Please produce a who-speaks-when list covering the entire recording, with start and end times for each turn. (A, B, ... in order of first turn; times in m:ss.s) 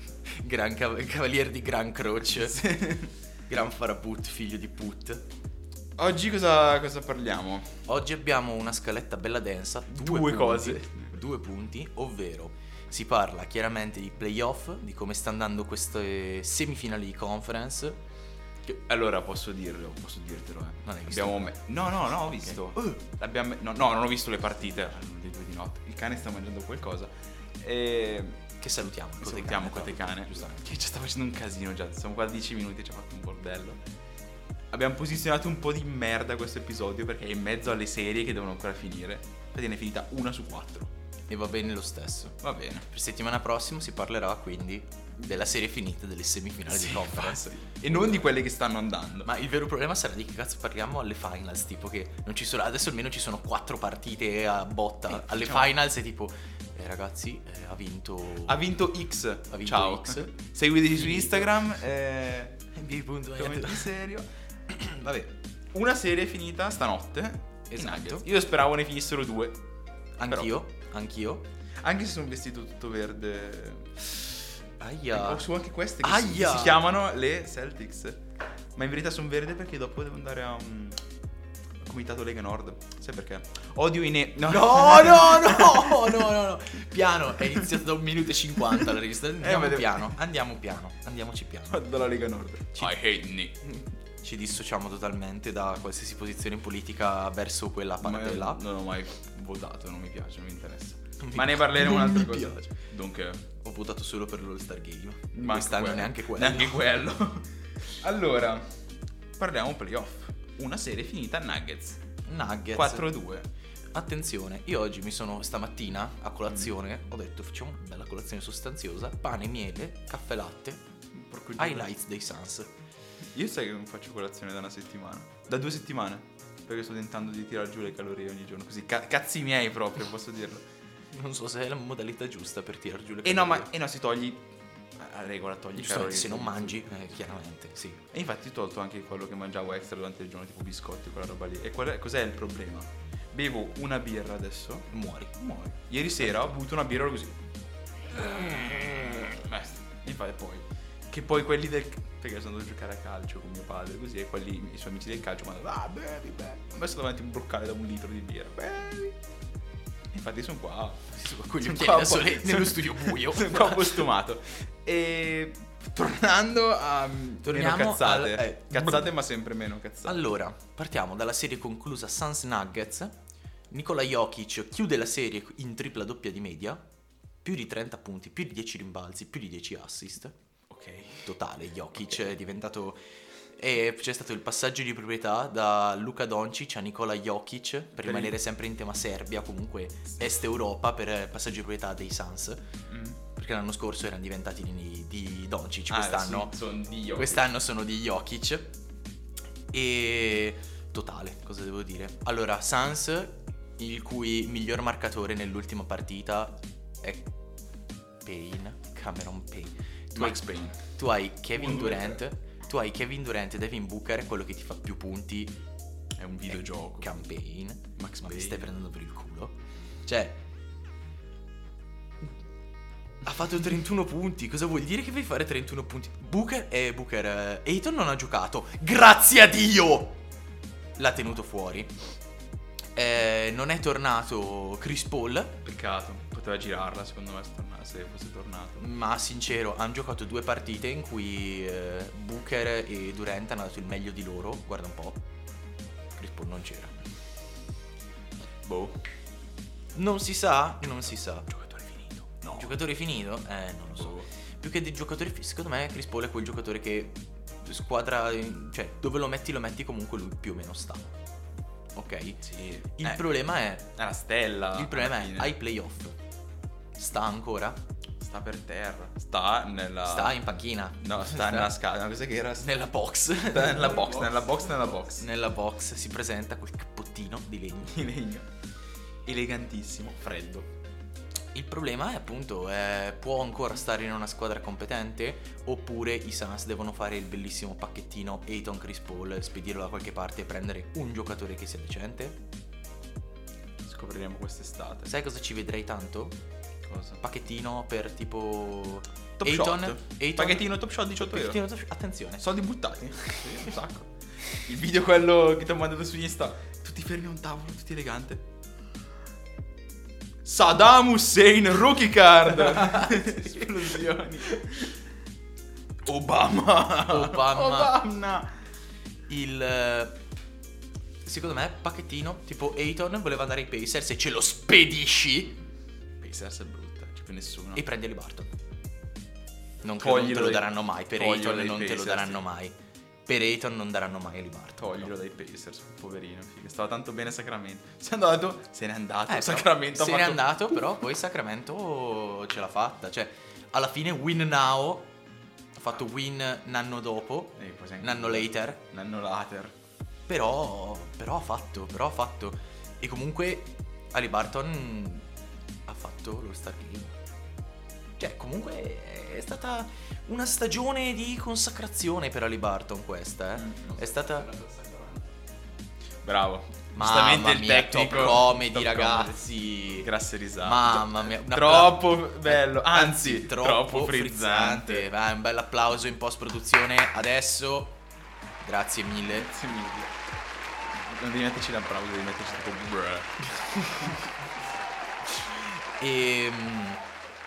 0:00.2-0:02.8 A
0:02.4-0:03.1 B
0:03.5-0:05.2 A
0:06.0-0:07.7 B
0:07.9-0:18.0 A
0:09.9-0:11.1 B
0:18.6-0:28.4 B
0:20.8-0:21.6 A
0:28.6-0:30.6 A
0:29.2-0:33.8 B
0:34.7-0:40.9 B
0:41.3-0:42.4 A
0:42.4-0:42.9 B
0:42.9-0:48.2 A
0:46.6-0:49.3 B
0:49.2-0:58.7 A
0:55.1-0:55.7 B
0:58.4-1:02.6 B
0:59.5-1:00.4 A
1:00.9-1:01.6 A
1:02.7-1:03.9 A
1:03.4-1:09.6 B
1:07.7-1:08.3 A
1:10.2-1:11.5 A
1:10.3-1:10.5 B
1:11.8-1:14.1 B
1:14.8-1:15.5 A
1:15.1-1:18.2 B
1:16.0-1:16.8 A
1:18.8-1:21.0 B
1:21.8-1:26.4 B
1:24.5-1:31.8 A
1:27.5-1:27.8 B
1:28.7-1:30.2 B
1:31.7-1:33.6 B
1:34.2-1:38.6 A
1:38.0-1:43.4 B
1:41.2-1:42.7 A
1:43.6-1:46.8 A
1:45.3-1:48.8 B
1:49.4-1:52.0 B
1:52.2-1:53.1 A
1:52.7-1:53.5 B
1:53.9-2:00.8 A
1:56.5-1:56.7 B
2:01.1-2:02.0 B
2:01.6-2:02.7 A
2:03.3-2:10.7 B
2:11.1-2:13.7 A
2:13.2-2:17.3 B
2:15.8-2:18.0 A
2:18.1-2:27.4 B
2:24.9-2:25.3 A
2:28.1-2:39.2 B
2:40.1-2:50.3 B
2:41.1-2:44.1 A
2:47.4-2:49.1 A
2:50.0-2:53.2 A
2:53.7-2:56.8 A
2:57.4-3:00.4 A
3:00.7-3:01.4 B
3:01.2-3:03.0 A
3:03.6-3:12.6 A
3:08.0-3:08.4 B
3:12.9-3:13.2 B
3:13.4-3:16.6 A
3:15.9-3:17.5 B
3:17.2-3:18.7 A
3:19.7-3:27.3 A
3:28.2-3:35.6 A
3:30.1-3:30.8 B
3:31.5-3:32.2 B
3:36.2-3:37.2 B
3:36.5-3:40.4 A
3:38.0-3:38.7 B
3:43.2-3:50.2 A
3:51.0-3:52.0 A
3:53.0-3:55.6 A
3:55.6-3:58.8 B
3:58.8-4:05.2 A
4:06.2-4:06.9 A
4:08.6-4:09.0 B
4:10.0-4:11.5 A
4:11.5-4:12.8 B
4:12.5-4:21.1 A
4:13.9-4:14.3 B
4:22.0-4:22.4 A
4:22.4-4:23.2 B
4:23.0-4:23.9 A
4:24.0-4:25.6 B
4:24.7-4:26.2 A
4:27.0-4:27.8 A
4:28.2-4:30.4 B
4:30.1-4:31.7 A
4:31.0-4:32.8 B
4:32.6-4:34.2 A
4:33.4-4:35.3 B
4:35.2-4:38.1 A
4:37.9-4:38.5 B
4:39.2-4:40.7 B
4:41.5-4:52.4 A
4:53.8-4:55.1 B
4:55.1-4:56.4 A
4:56.9-4:57.2 B
4:57.2-5:02.4 A
4:59.4-5:01.6 B
5:02.4-5:08.5 B
5:10.4-5:14.9 B
5:12.9-5:13.2 A
5:16.0-5:18.5 B
5:17.1-5:18.0 A
5:19.3-5:20.2 A
5:21.2-5:25.6 A
5:26.2-5:27.9 B
5:27.8-5:28.5 A
5:29.8-5:32.7 A
5:30.0-5:32.5 B
5:33.3-5:35.1 A
5:34.8-5:40.6 B
5:39.3-5:45.1 A
5:45.8-5:48.8 A
5:47.6-5:49.8 B
5:50.3-5:55.3 A
5:55.9-5:57.2 A
5:58.2-6:04.5 A
6:03.6-6:05.3 B
6:06.2-6:15.1 B
6:07.0-6:10.1 A
6:10.6-6:18.0 A
6:18.6-6:19.5 A
6:19.3-6:20.1 B
6:20.9-6:23.5 B
6:23.8-6:24.2 A
6:25.4-6:27.0 A